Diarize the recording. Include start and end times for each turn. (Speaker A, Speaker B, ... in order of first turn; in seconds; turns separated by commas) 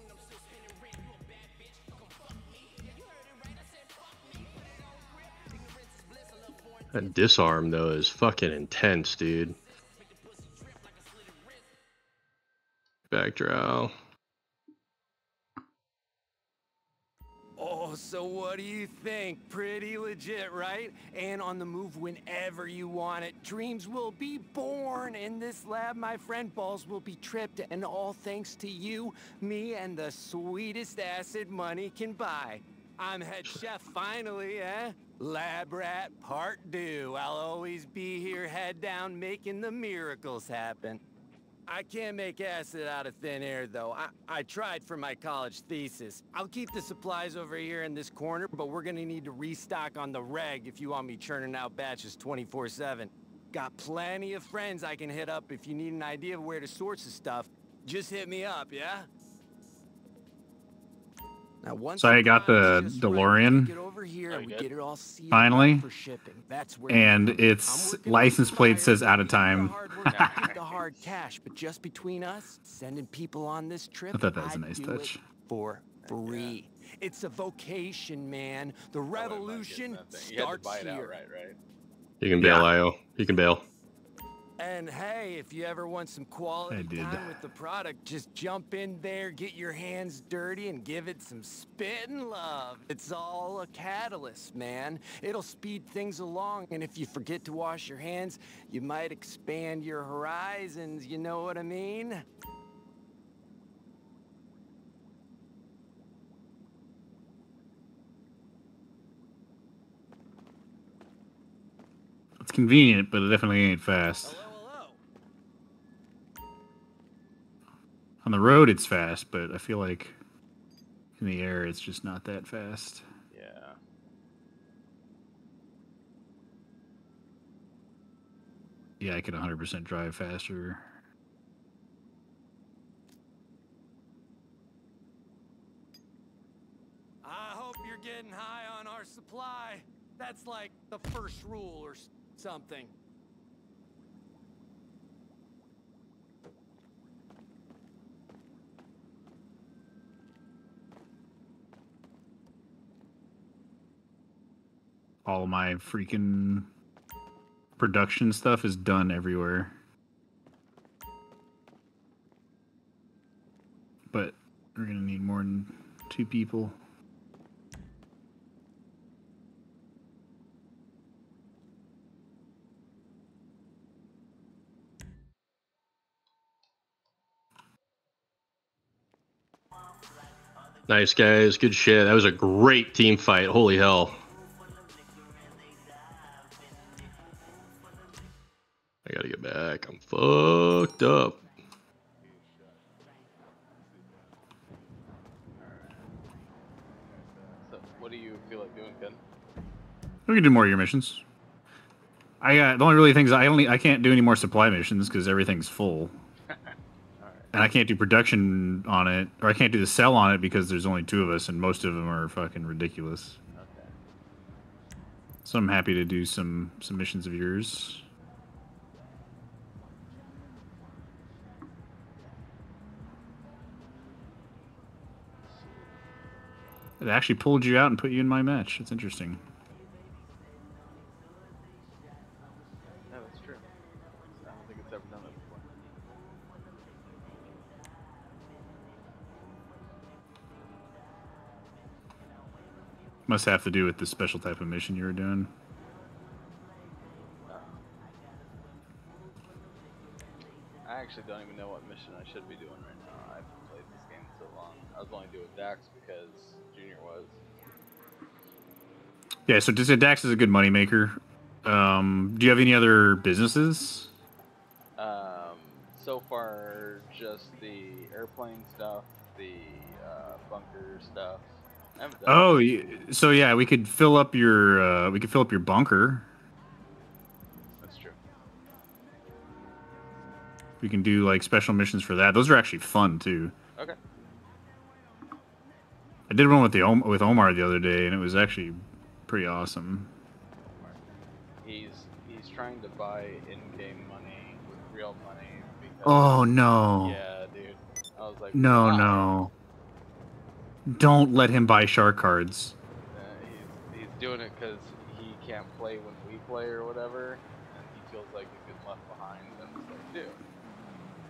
Speaker A: 6.9-9.6, Speaker A: 13.1-13.9, Speaker B: 17.6-41.0, Speaker B: 41.7-59.1, Speaker B: 61.6-81.1, Speaker C: 62.0-63.7, Speaker D: 64.3-64.7, Speaker C: 65.3-65.8, Speaker C: 66.9-70.5, Speaker D: 70.1-70.8, Speaker C: 74.1-75.2, Speaker D: 76.0-76.6, Speaker D: 79.1-81.6, Speaker A: 82.2-83.6, Speaker C: 82.4-82.7, Speaker B: 84.6-102.2, Speaker C: 86.7-87.4, Speaker C: 112.4-114.4, Speaker B: 114.2-115.0, Speaker C: 118.2-120.2, Speaker C: 121.2-123.0, Speaker D: 123.3-123.8, Speaker C: 129.0-130.9, Speaker B: 137.2-142.9, Speaker C: 155.2-156.7, Speaker C: 157.8-159.7, Speaker C: 164.1-166.8, Speaker A: 180.9-184.2, Speaker A: 189.1-191.4, Speaker D: 195.6-196.1, Speaker D: 197.0-199.2, Speaker C: 200.3-201.2, Speaker C: 202.4-206.1, Speaker D: 206.5-207.5, Speaker C: 207.5-213.4, Speaker D: 213.5-213.9, Speaker C: 215.4-218.0, Speaker D: 225.6-225.9, Speaker C: 227.0-229.4, Speaker D: 233.1-233.7, Speaker D: 234.4-235.7, Speaker C: 243.3-245.5, Speaker D: 247.5-247.8, Speaker D: 250.8-257.4, Speaker C: 259.5-264.1, Speaker D: 265.0-272.8, Speaker C: 272.2-276.3, Speaker D: 277.8-278.2, Speaker C: 280.8-283.5, Speaker C: 286.3-290.1, Speaker D: 290.6-291.0, Speaker D: 291.6-296.5, Speaker C: 296.0-297.2, Speaker D: 297.0-299.3, Speaker C: 298.5-299.5, Speaker C: 300.9-302.7, Speaker D: 303.1-310.4